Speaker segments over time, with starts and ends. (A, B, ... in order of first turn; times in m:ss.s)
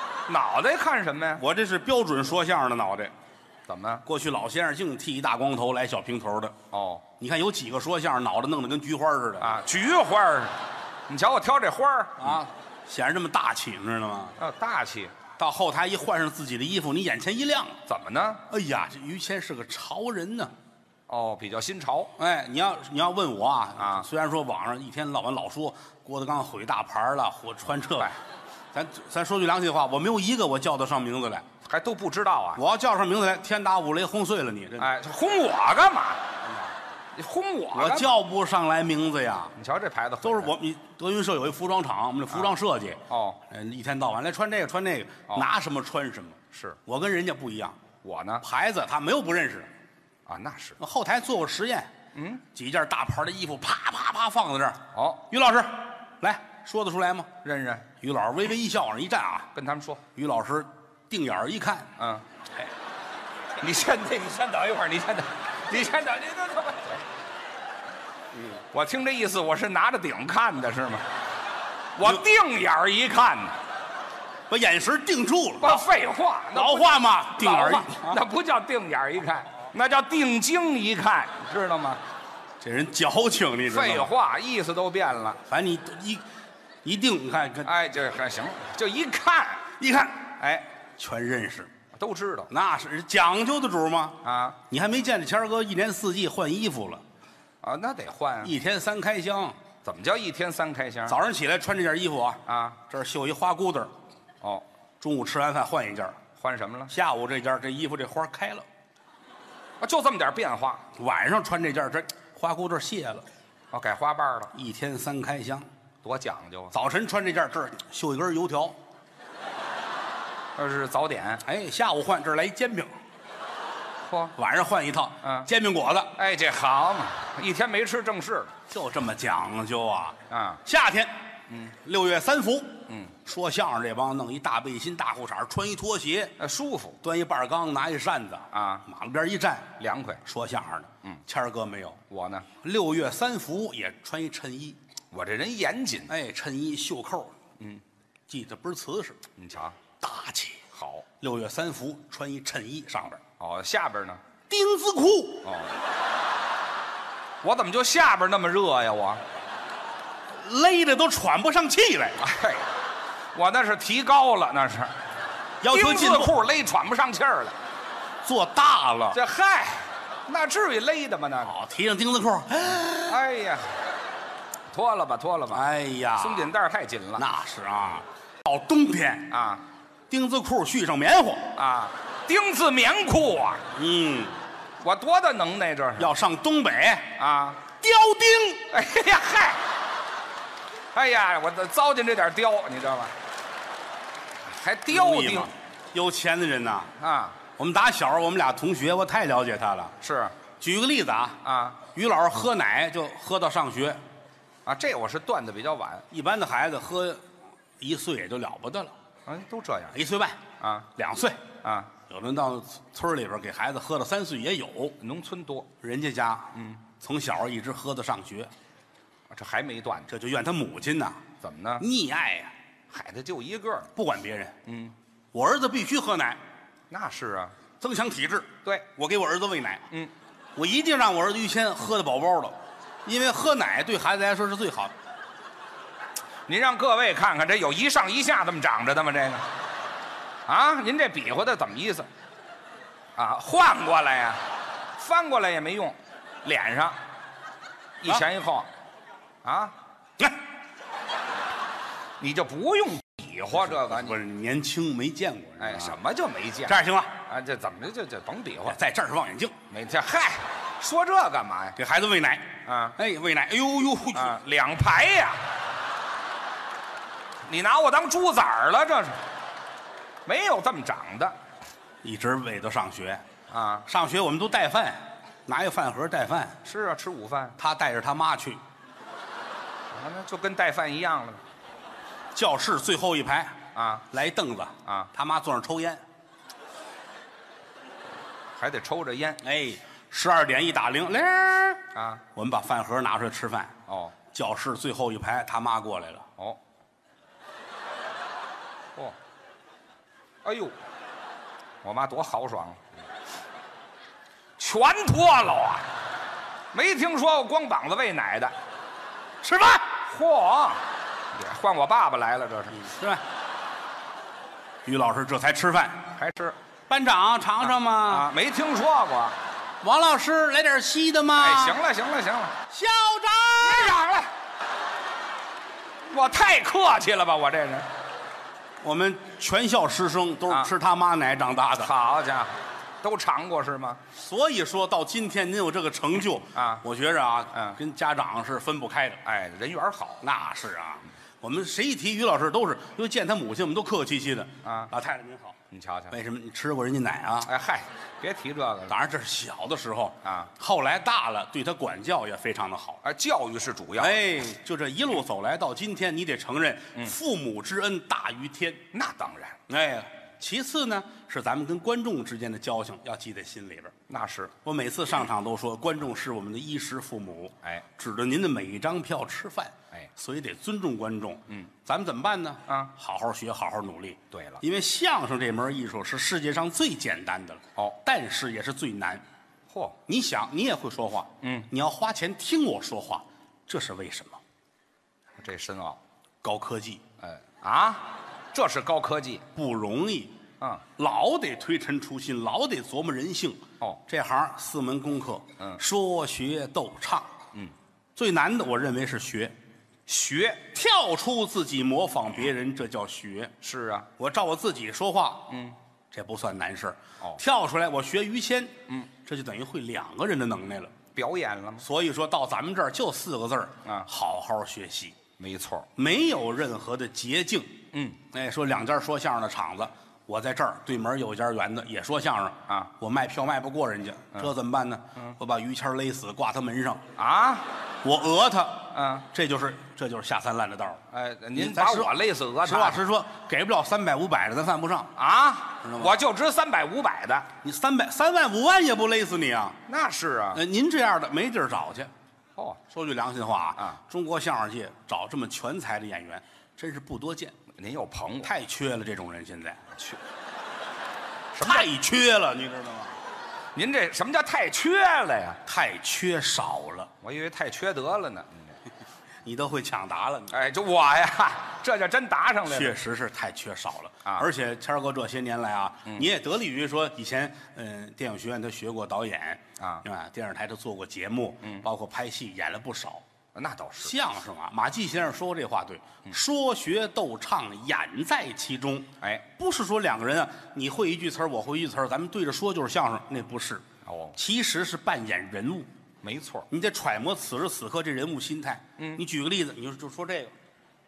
0:00.3-0:01.4 A
0:01.4-0:03.1 B
0:03.7-0:04.0 A
0:04.0-0:06.6 B
0:06.7-0:07.1 A
0:07.2-0:09.6 B
0:09.4-0:12.4 A
0:12.2-0:14.4 B
0:14.4-0:15.2 A
0:15.4-0:17.8 B
0:17.9-0:18.4 A
0:18.5-0:20.5 B
0:21.1-0:22.1 A
0:22.2-0:28.2 B
0:23.8-0:24.1 A
0:28.7-0:31.5 B
0:31.6-0:32.6 A
0:32.6-0:34.9 B
0:34.8-0:36.3 A
0:37.1-0:38.1 A
0:37.7-0:39.6 B
0:39.6-0:40.5 A
0:40.2-0:47.8 B
0:43.1-0:43.4 A
0:46.5-0:46.8 A
0:48.0-0:48.4 A
0:48.4-0:49.7 B
0:50.3-0:50.8 A
0:50.8-0:51.9 B
0:52.1-0:52.4 A
0:52.5-0:57.3 B
0:54.9-0:55.3 A
0:57.4-0:57.9 A
0:58.0-0:59.5 B
0:59.5-1:00.0 A
1:00.2-1:01.9 B
1:02.0-1:02.2 A
1:03.6-1:07.0 A
1:08.7-1:11.1 A
1:12.0-1:13.6 A
1:14.5-1:15.8 B
1:15.6-1:22.0 A
1:16.5-1:18.2 B
1:22.6-1:24.1 B
1:23.7-1:25.4 A
1:25.5-1:26.2 B
1:26.8-1:27.7 B
1:27.6-1:29.7 A
1:29.8-1:30.3 B
1:30.4-1:30.7 A
1:31.0-1:31.7 B
1:31.9-1:32.5 A
1:32.5-1:37.0 B
1:34.2-1:34.6 A
1:37.6-1:38.6 A
1:38.4-1:39.6 B
1:39.8-1:41.2 A
1:41.1-1:43.9 B
1:42.5-1:42.8 A
1:45.0-1:46.2 B
1:46.4-1:46.9 A
1:46.9-1:48.6 B
1:49.8-1:50.8 A
1:51.0-1:53.2 B
1:53.7-1:54.5 A
1:54.5-1:55.7 B
1:56.0-1:56.7 A
1:56.7-1:58.8 B
2:00.6-2:01.4 A
2:01.4-2:02.9 B
2:04.0-2:04.3 A
2:04.4-2:06.2 B
2:05.2-2:05.5 A
2:06.2-2:08.5 A
2:08.7-2:16.4 B
2:10.3-2:10.6 A
2:12.9-2:13.2 A
2:16.4-2:17.0 A
2:17.0-2:22.0 B
2:18.5-2:18.8 A
2:19.8-2:20.2 A
2:22.1-2:22.5 A
2:22.6-2:24.8 B
2:25.1-2:26.1 A
2:26.1-2:27.4 B
2:28.3-2:29.2 B
2:29.4-2:29.8 A
2:30.0-2:30.6 B
2:30.7-2:31.1 A
2:31.2-2:33.2 B
2:33.4-2:34.2 A
2:34.5-2:35.5 B
2:35.4-2:35.8 A
2:37.4-2:39.2 A
2:40.3-2:42.2 B
2:42.2-2:42.7 A
2:43.3-2:44.9 A
2:45.6-2:46.4 B
2:45.7-2:47.6 A
2:48.2-2:49.2 B
2:49.1-2:51.5 A
2:51.4-2:53.2 B
2:53.1-2:53.8 A
2:54.7-2:55.6 A
2:55.5-2:56.5 B
2:56.2-2:57.2 A
2:57.2-2:59.3 B
2:59.3-2:59.6 A
3:00.1-3:01.5 B
3:01.6-3:03.7 A
3:03.7-3:04.4 B
3:04.8-3:06.1 A
3:06.0-3:07.2 B
3:07.2-3:07.6 A
3:07.8-3:08.7 B
3:08.7-3:09.6 A
3:10.9-3:13.1 A
3:14.4-3:15.5 A
3:14.9-3:16.9 B
3:17.0-3:17.4 A
3:17.6-3:20.0 B
3:20.0-3:20.4 A
3:20.6-3:24.0 B
3:21.4-3:21.8 A
3:24.6-3:26.1 A
3:26.1-3:27.2 B
3:27.8-3:28.9 B
3:29.3-3:30.0 A
3:29.9-3:30.4 B
3:30.6-3:30.9 A
3:31.0-3:31.4 B
3:31.6-3:31.9 A
3:32.0-3:35.0 B
3:35.0-3:35.7 A
3:35.8-3:38.5 B
3:36.6-3:36.8 A
3:39.3-3:40.1 A
3:40.1-3:41.2 B
3:41.4-3:41.8 A
3:41.8-3:42.5 B
3:42.9-3:43.9 A
3:44.0-3:44.6 B
3:44.6-3:45.0 A
3:45.3-3:46.4 B
3:46.9-3:47.6 A
3:47.8-3:49.9 B
3:50.6-3:54.9 B
3:56.5-3:59.5 A
4:00.5-4:02.1 A
4:03.2-4:04.4 A
4:05.0-4:07.0 A
4:08.0-4:08.7 A
4:09.4-4:09.8 A
4:12.2-4:14.2 A
4:13.5-4:16.0 B
4:15.6-4:18.8 A
4:16.7-4:17.2 B
4:18.7-4:19.6 B
4:19.7-4:21.8 A
4:21.8-4:24.4 B
4:22.6-4:23.0 A
4:24.1-4:25.5 A
4:27.4-4:29.2 A
4:30.2-4:31.4 A
4:32.0-4:33.2 B
4:33.5-4:33.9 A
4:33.9-4:36.6 B
4:36.6-4:37.6 A
4:37.6-4:38.6 B
4:39.9-4:41.4 A
4:42.4-4:46.0 B
4:43.8-4:44.1 A
4:48.6-4:49.4 A
4:49.4-4:53.8 B
4:51.9-4:52.2 A
4:53.9-4:54.2 A
4:54.3-4:56.3 B
5:00.4-5:00.8 A
5:01.8-5:02.8 A
5:04.6-5:05.9 A
5:06.7-5:08.6 A
5:09.4-5:09.9 B
5:10.1-5:12.8 A
5:12.7-5:13.2 B
5:14.9-5:16.1 B
5:16.2-5:16.6 A
5:16.9-5:18.3 B
5:18.0-5:19.4 A
5:19.8-5:21.8 B
5:21.4-5:22.6 A
5:22.7-5:24.0 B
5:23.6-5:24.3 A
5:26.1-5:27.9 A
5:28.8-5:31.9 B
5:31.8-5:34.0 A
5:34.1-5:39.2 B
5:36.6-5:36.8 A
5:39.2-5:40.2 A
5:40.2-5:45.6 B
5:44.6-5:44.9 A
5:45.7-5:46.1 A
5:46.1-5:47.5 B
5:47.4-5:49.0 A
5:48.9-5:53.0 B
5:50.2-5:50.5 A
5:53.0-5:54.2 A
5:54.0-5:58.8 B
5:58.9-5:59.6 A
5:59.7-6:03.9 B
6:04.1-6:04.6 A
6:04.6-6:19.2 B
6:14.3-6:14.6 A
6:19.7-6:20.0 A
6:20.1-6:24.4 B
6:21.4-6:21.7 A
6:25.4-6:26.0 A
6:26.4-6:27.0 B
6:27.2-6:29.5 A
6:29.6-6:30.4 B
6:30.6-6:30.8 A
6:31.0-6:37.3 B
6:38.2-6:39.5 B
6:40.1-6:40.7 A
6:40.7-6:43.5 B
6:43.6-6:44.1 A
6:44.2-6:45.5 B
6:45.5-6:45.8 A
6:46.1-6:50.9 B
6:51.1-6:51.8 A
6:51.8-6:55.2 B
6:55.4-6:55.9 A
6:56.0-7:07.0 B
6:57.9-6:58.2 A
7:07.2-7:07.7 A
7:08.0-7:11.0 B
7:08.9-7:09.3 A
7:11.1-7:13.0 A
7:11.6-7:15.1 B
7:15.2-7:17.5 A
7:15.8-7:16.2 B
7:17.6-7:19.8 B
7:19.9-7:20.6 A
7:20.5-7:22.1 B
7:22.9-7:27.6 B
7:27.7-7:28.5 A
7:28.4-7:29.9 B
7:29.9-7:30.2 A
7:31.5-7:31.9 A
7:31.6-7:33.2 B
7:33.8-7:35.6 A
7:35.7-7:37.1 B
7:37.2-7:38.8 A
7:39.4-7:40.6 B
7:40.5-7:43.0 A
7:42.7-7:53.2 B
7:49.8-7:50.0 A
7:53.6-7:54.1 A
7:54.0-8:05.9 B
7:59.2-7:59.5 A
8:04.0-8:04.4 A
8:06.2-8:06.7 A
8:06.7-8:10.5 B